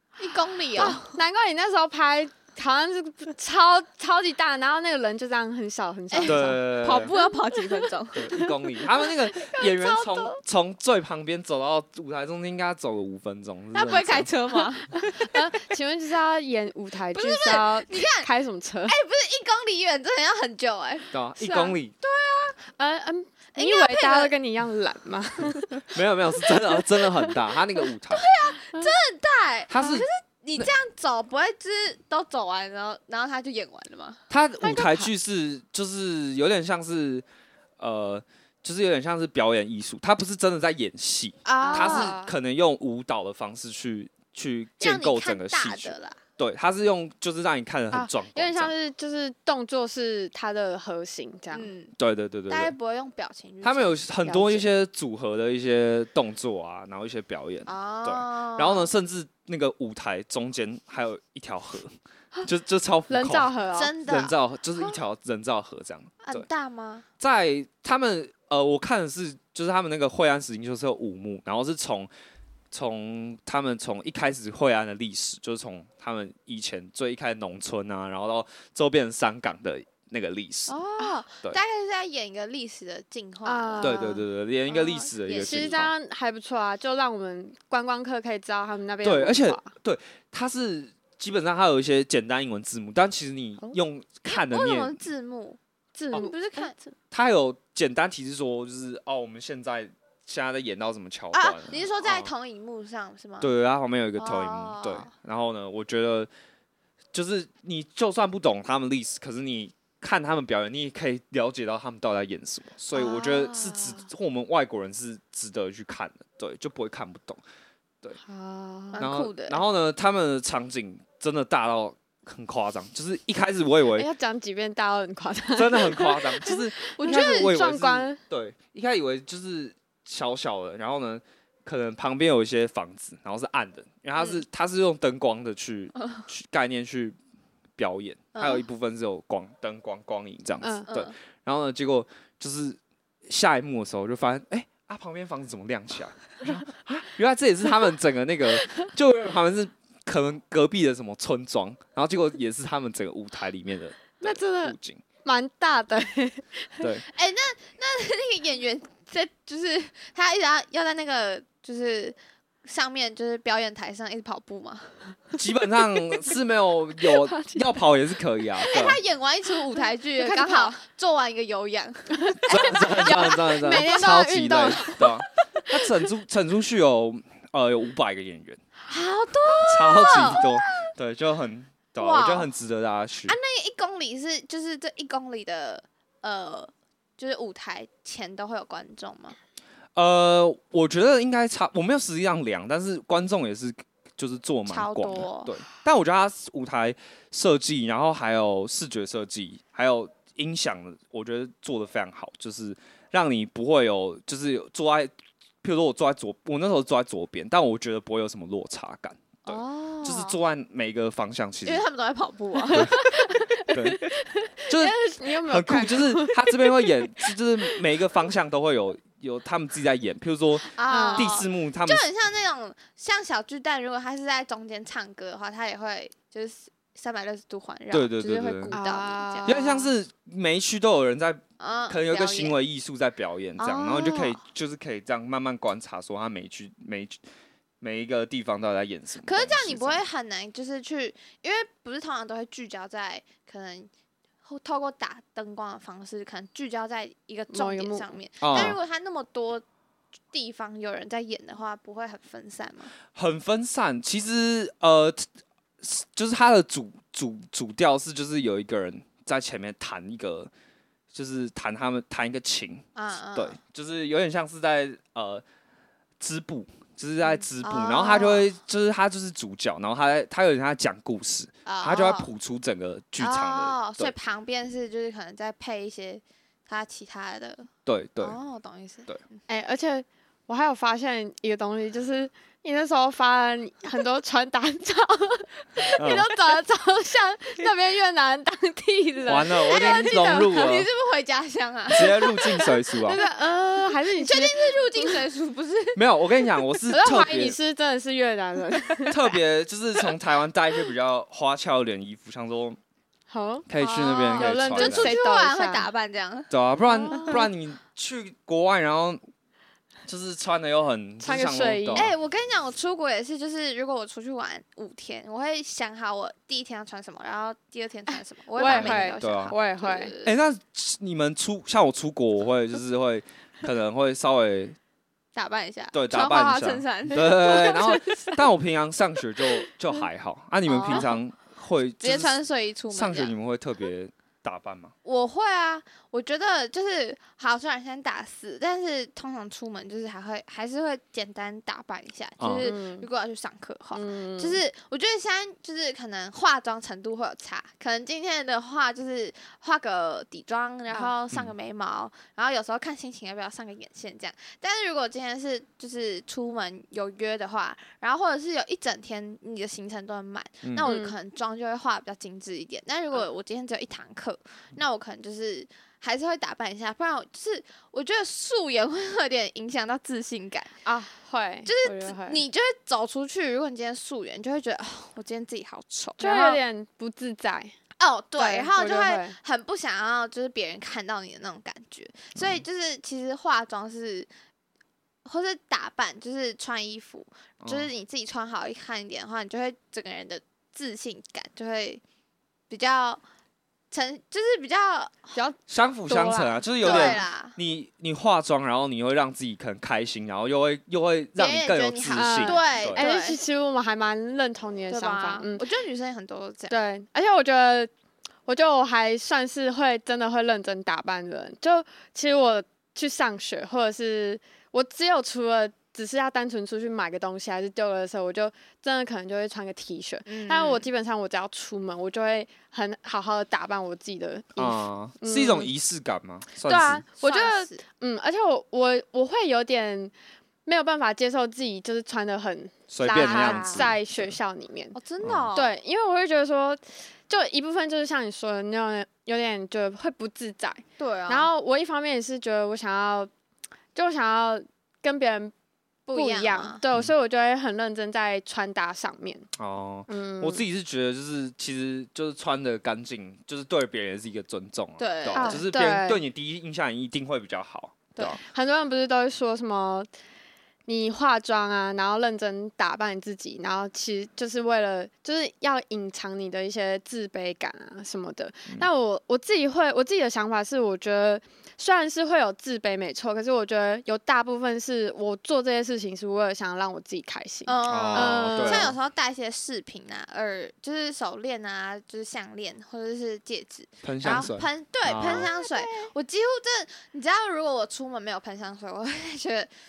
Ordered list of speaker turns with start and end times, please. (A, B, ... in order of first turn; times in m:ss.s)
0:00.2-0:01.2 A
0:00.7-0:01.0 B
0:00.8-0:10.4 C
0:06.1-0:08.3 A
0:06.2-0:07.1 B
0:08.1-0:14.3 B
0:13.7-0:15.4 A
0:15.0-0:19.0 C
0:17.1-0:18.3 A
0:18.9-0:22.6 A
0:21.1-0:22.0 B
0:22.8-0:25.9 C
0:23.6-0:24.3 A
0:25.8-0:28.3 B
0:28.1-0:34.2 A
0:29.7-0:30.1 B
0:34.3-0:37.2 B
0:34.6-0:35.1 C
0:37.8-0:48.7 B
0:41.4-0:42.3 A
0:41.6-0:42.3 C
0:44.8-0:46.2 A
0:47.9-0:51.7 C
0:51.5-0:51.9 A
0:52.0-0:52.7 B
0:52.5-0:54.1 A
0:53.6-1:01.9 B
0:54.2-0:54.7 C
0:57.7-0:58.9 A
1:02.4-1:03.5 B
1:03.1-1:03.9 C
1:03.7-1:04.9 A
1:04.0-1:06.5 B
1:06.2-1:07.0 A
1:07.2-1:12.1 B
1:12.7-1:20.8 B
1:20.7-1:24.1 A
1:23.4-1:24.2 C
1:23.8-1:25.9 B
1:24.7-1:25.9 A
1:25.4-1:29.7 C
1:29.0-1:35.0 B
1:34.3-1:35.6 A
1:36.0-1:36.9 C
1:36.1-1:36.8 A
1:37.1-1:42.3 B
1:41.3-1:43.5 A
1:43.4-1:46.3 B
1:44.2-1:45.1 A
1:47.1-1:57.4 B
1:53.0-1:53.9 A
1:58.2-1:59.0 C
1:58.9-1:59.6 A
1:59.0-2:04.1 B
2:04.0-2:08.2 C
2:05.6-2:17.2 B
2:07.0-2:07.4 A
2:17.8-2:35.0 B
2:18.4-2:18.6 A
2:20.6-2:20.9 C
2:20.9-2:21.1 A
2:34.2-2:36.9 C
2:37.1-2:45.2 A
2:45.4-2:49.0 B
2:47.1-2:47.7 C
2:48.6-2:53.5 A
2:49.8-2:50.8 C
2:52.2-2:55.7 C
2:52.5-2:58.6 B
2:58.9-3:00.6 A
2:59.6-3:03.4 B
3:02.0-3:02.5 A
3:03.3-3:09.4 A
3:10.0-3:31.9 B
3:14.7-3:15.6 A
3:29.5-3:30.4 A
3:31.6-3:33.0 A
3:32.7-3:37.8 C
3:33.7-3:34.1 B
3:34.7-3:42.0 B
3:40.8-3:49.8 A
3:40.9-3:41.3 C
3:47.9-3:48.8 B
3:48.7-3:49.8 C
3:49.4-3:57.2 B
3:51.6-3:52.6 A
3:53.6-3:54.4 A
3:57.8-4:00.0 B
3:59.2-4:03.9 A
4:04.4-4:09.6 A
4:07.5-4:08.7 C
4:08.4-4:08.8 B
4:10.3-4:12.9 A
4:13.1-4:15.3 B
4:15.8-4:20.5 B
4:21.1-4:25.4 B
4:23.0-4:23.6 A
4:26.2-4:34.1 B
4:27.6-4:28.5 A
4:31.6-4:32.3 A
4:33.2-4:39.4 A
4:37.9-4:38.4 B
4:39.5-4:50.5 C
4:46.0-4:46.3 B
4:49.3-4:50.9 B
4:49.7-4:52.7 A
4:51.9-4:53.2 B
4:52.0-4:55.2 C
4:54.1-4:56.0 A
4:56.0-4:57.6 B
4:56.9-4:59.2 C
4:59.1-5:02.8 B
5:03.3-5:03.7 C
5:03.7-5:05.1 B
5:03.8-5:06.5 A
5:04.4-5:05.9 C
5:06.5-5:09.2 B
5:06.9-5:07.4 C
5:07.1-5:07.4 A
5:10.1-5:12.1 B
5:11.2-5:12.1 C
5:11.9-5:20.4 A
5:18.6-5:20.1 C
5:18.7-5:19.6 B
5:20.2-5:24.8 B
5:25.4-5:28.4 A
5:25.9-5:32.4 B
5:27.5-5:28.3 C
5:30.7-5:31.2 A
5:32.0-5:33.3 A
5:32.9-5:34.9 B
5:35.0-6:10.8 A
5:42.4-5:42.7 B
5:42.6-5:43.1 C
5:43.9-5:44.6 C
6:00.6-6:00.9 B
6:00.8-6:01.2 C
6:10.8-6:12.4 C
6:11.7-6:16.6 A
6:16.2-6:17.8 C
6:18.0-6:24.3 A
6:18.4-6:19.4 C
6:22.4-6:22.6 B
6:25.2-6:32.0 A
6:27.6-6:27.9 B
6:32.7-6:33.2 A
6:33.9-6:35.4 A
6:35.4-6:37.2 C
6:35.7-6:43.0 B
6:36.8-6:37.6 A
6:41.4-6:43.4 A
6:42.1-6:45.6 C
6:44.9-6:46.8 A
6:46.7-6:47.9 C
6:48.5-7:05.7 C
7:00.3-7:00.9 A
7:04.6-7:07.0 B
7:06.6-7:10.1 C
7:07.2-7:07.8 A
7:10.7-7:15.0 C
7:12.9-7:14.3 B
7:13.1-7:13.9 A
7:14.9-7:15.7 A
7:15.2-7:15.5 B
7:15.5-7:23.3 C
7:21.0-7:21.5 A
7:24.0-7:25.5 C
7:26.1-7:26.8 A
7:26.1-7:29.5 C
7:29.6-7:38.4 B
7:30.1-7:30.6 C
7:35.0-7:35.6 A
7:35.3-7:36.2 C
7:38.2-7:40.1 C
7:40.9-7:58.9 C
7:57.7-8:09.7 A
7:57.8-7:59.0 B
8:04.0-8:05.5 B
8:05.2-8:06.1 C